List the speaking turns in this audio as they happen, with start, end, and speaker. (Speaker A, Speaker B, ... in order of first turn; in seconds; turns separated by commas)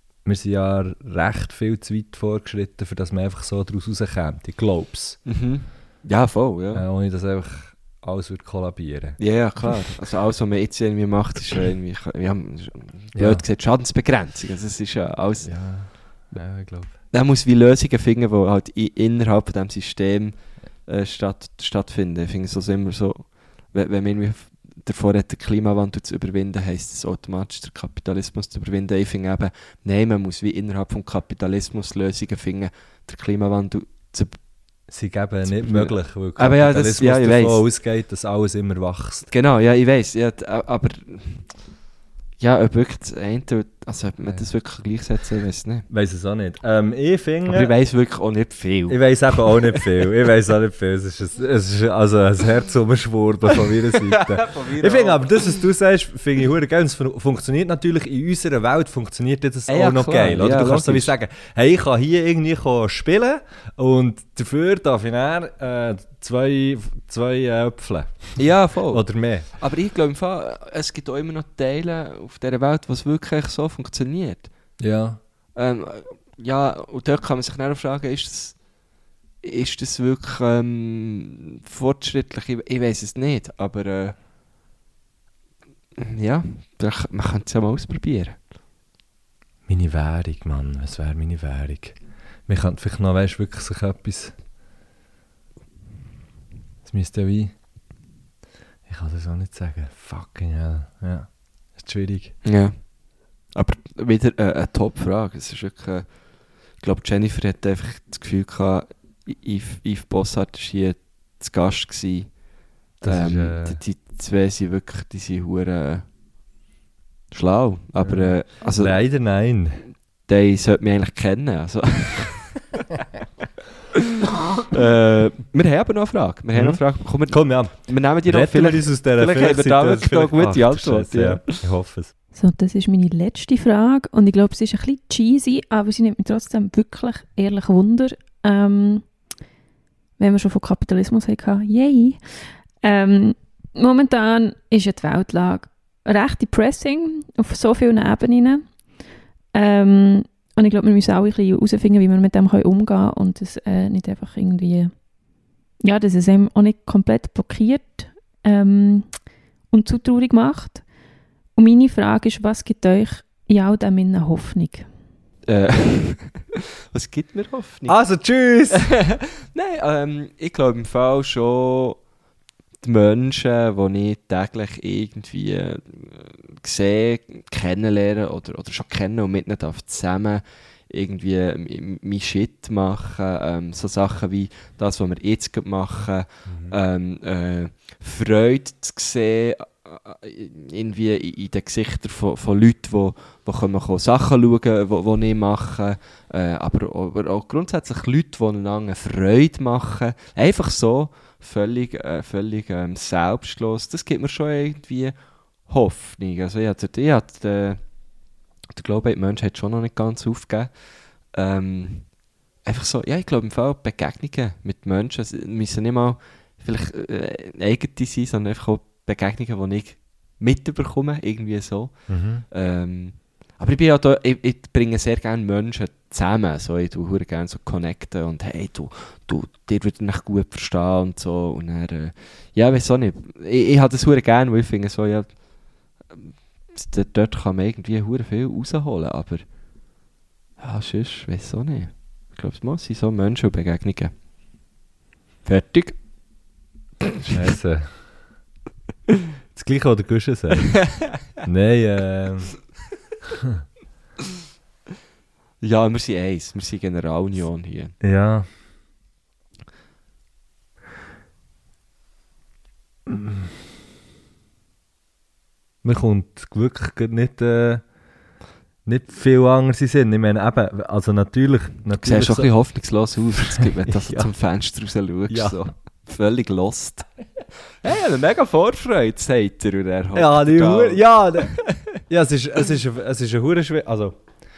Speaker A: 0.2-5.2, Speaker B: 5.3-6.8, Speaker A: 6.7-9.8, Speaker B: 9.2-15.5, Speaker A: 13.2-13.4, Speaker A: 15.4-17.0, Speaker B: 17.1-34.4, Speaker A: 34.9-39.3, Speaker B: 35.6-37.6, Speaker B: 39.3-41.5, Speaker B: 42.4-45.9, Speaker A: 45.9-47.7, Speaker B: 47.5-49.8, Speaker A: 48.9-69.5, Speaker B: 53.7-55.6, Speaker B: 59.7-61.1, Speaker B: 68.4-74.5, Speaker A: 74.8-75.2, Speaker B: 75.5-78.6, Speaker B: 79.4-84.2, Speaker B: 86.0-88.4, Speaker A: 89.7-92.0, Speaker A: 92.5-94.3, Speaker A: 96.8-97.5, Speaker A: 98.9-102.4, Speaker B: 102.4-103.0, Speaker B: 103.5-106.2, Speaker B: 106.7-112.4, Speaker A: 113.0-113.8, Speaker B: 113.0-116.0, Speaker B: 117.3-119.0, Speaker A: 118.0-119.9, Speaker B: 120.3-122.9, Speaker B: 124.0-131.6, Speaker A: 126.5-132.1, Speaker C: 132.3-139.1, Speaker C: 140.2-142.2, Speaker C: 142.8-148.6, Speaker C: 149.5-154.9, Speaker C: 155.8-159.1, Speaker C: 159.7-160.8, Speaker C: 161.6-164.9, Speaker B: 165.5-168.0, Speaker A: 167.9-168.9, Speaker B: 168.7-172.0, Speaker B: 172.8-205.2, Speaker A: 186.5-186.8, Speaker B: 205.7-207.8, Speaker B: 208.7-210.7, Speaker B: 211.3-212.1, Speaker B: 212.6-235.4, Speaker A: 222.1-222.4, Speaker B: 236.1-239.4, Speaker B: 240.6-244.1, Speaker B: 245.4-246.0, Speaker A: 247.3-248.1, Speaker A: 249.5-250.8, Speaker A: 251.4-252.5, Speaker B: 255.6-257.9, Speaker A: 258.0-258.5, Speaker A: 263.1-263.5, Speaker A: 265.8-267.8, Speaker A: 268.9-272.5, Speaker B: 272.0-277.1, Speaker A: 273.9-274.3, Speaker A: 275.3-275.6, Speaker B: 277.8-281.8, Speaker A: 280.1-284.2